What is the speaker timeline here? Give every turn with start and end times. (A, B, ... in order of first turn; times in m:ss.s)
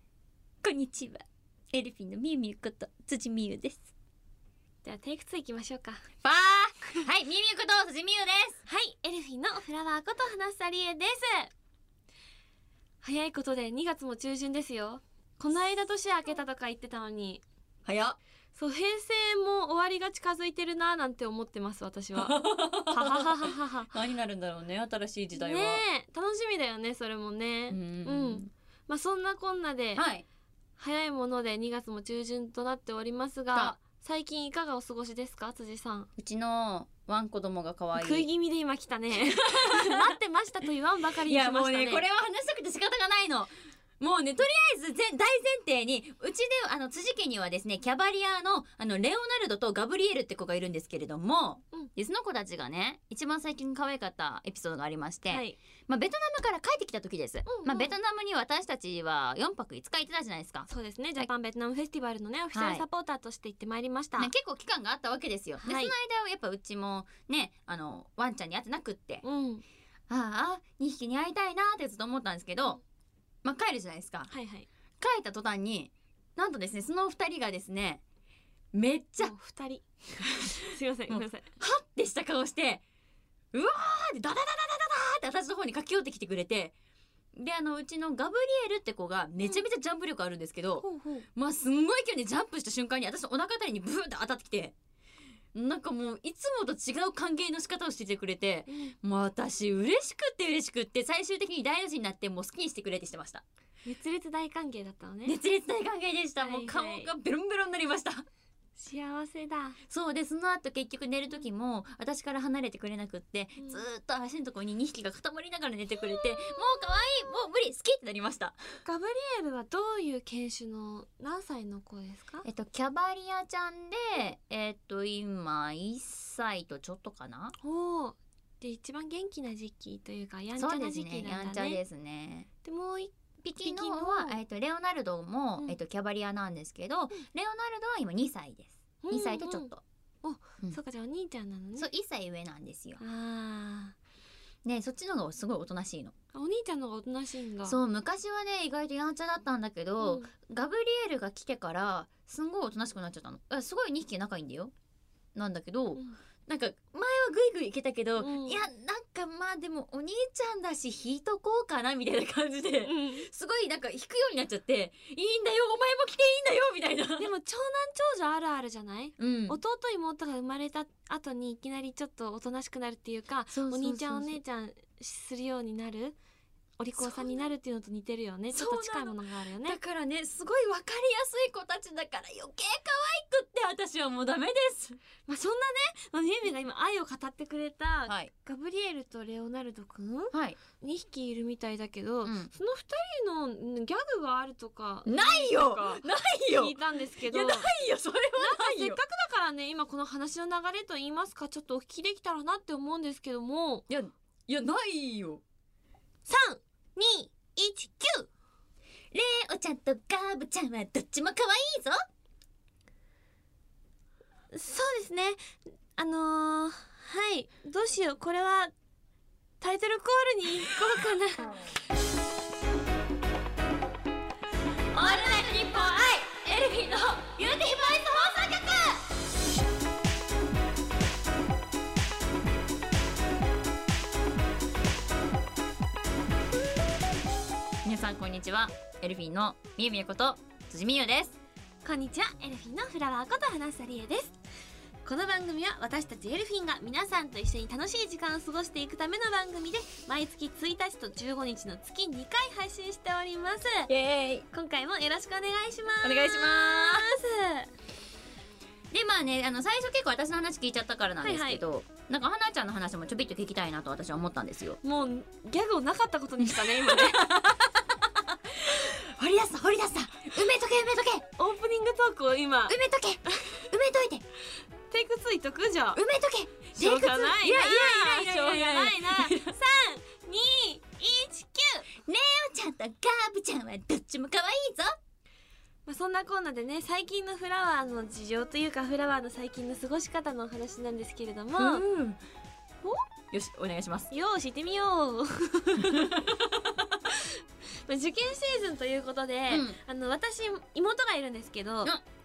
0:00.6-0:03.9 A
0:04.8-0:06.0 B
0:06.2-0:08.6 A
0:08.7-0:11.5 B
0:13.0-0:17.4 B
0:17.9-0:18.2 A
0:18.6-0:23.9 B
0:22.2-0:25.8 A
0:25.3-0:30.0 B
0:27.7-0:28.5 A
0:30.0-0:30.2 A
0:30.8-0:36.1 B
0:33.5-0:33.8 A
0:36.2-0:38.3 A
0:38.0-0:42.0 B
0:39.3-0:40.1 A
0:41.3-1:00.7 A
0:55.3-0:55.6 B
0:57.4-0:57.9 B
1:00.7-1:04.3 B
1:02.5-1:02.8 A
1:04.2-1:09.2 A
1:05.6-1:05.9 B
1:09.2-1:09.6 B
1:10.1-1:12.8 A
1:13.4-1:14.3 A
1:14.3-1:14.7 B
1:15.0-1:18.0 A
1:18.7-1:19.3 A
1:19.2-1:19.8 B
1:20.2-1:22.8 A
1:20.5-1:21.5 B
1:23.5-1:26.7 A
1:27.4-1:34.7 A
1:30.8-1:31.2 B
1:35.5-1:43.4 A
1:38.7-1:38.9 B
1:43.8-1:45.4 B
1:45.2-1:48.2 A
1:46.4-1:47.1 B
1:48.8-1:49.8 B
1:49.9-1:58.6 A
1:56.1-1:56.6 B
1:58.8-2:02.4 B
2:02.4-2:07.6 A
2:07.6-2:11.8 B
2:10.6-2:12.5 A
2:12.6-2:13.1 B
2:13.4-2:19.8 A
2:13.6-2:14.4 B
2:19.0-2:19.7 B
2:20.2-2:21.9 B
2:21.8-2:23.0 A
2:23.0-2:24.0 B
2:24.6-2:26.1 A
2:26.3-2:27.8 B
2:27.6-2:34.7 A
2:30.0-2:30.3 B
2:35.3-2:47.3 A
2:38.2-2:38.6 B
2:42.8-2:43.3 B
2:47.2-2:56.2 B
2:49.2-2:49.6 A
2:53.5-2:54.4 A
2:56.8-2:59.8 B
2:57.0-2:57.4 A
2:58.5-3:05.0 A
3:05.2-3:17.7 B
3:08.1-3:08.3 A
3:10.3-3:10.6 A
3:12.2-3:12.5 A
3:15.1-3:19.0 A
3:18.4-3:23.8 B
3:23.9-3:25.4 A
3:26.2-3:28.3 B
3:29.1-3:32.0 A
3:34.5-3:35.4 B
3:36.0-3:38.7 B
3:39.6-3:41.5 B
3:44.9-3:48.1 A
3:44.9-3:49.0 B
3:57.8-4:01.4 A
4:01.8-4:04.4 B
4:05.0-4:13.9 B
4:13.9-4:14.4 A
4:14.5-4:17.7 B
4:16.0-4:17.1 A
4:18.9-4:24.8 A
4:21.2-4:21.6 B
4:24.8-4:27.3 B
4:26.6-4:27.9 A
4:28.4-4:31.2 A
4:31.4-4:33.6 B
4:32.7-4:34.2 A
4:34.9-4:36.0 B
4:35.9-4:39.6 A
4:36.8-4:41.8 B
4:42.1-4:45.0 A
4:45.9-4:51.9 B
4:51.6-4:52.2 A
4:53.3-4:54.1 A
4:54.1-5:01.9 B
4:55.8-4:56.5 A
4:59.5-4:59.8 A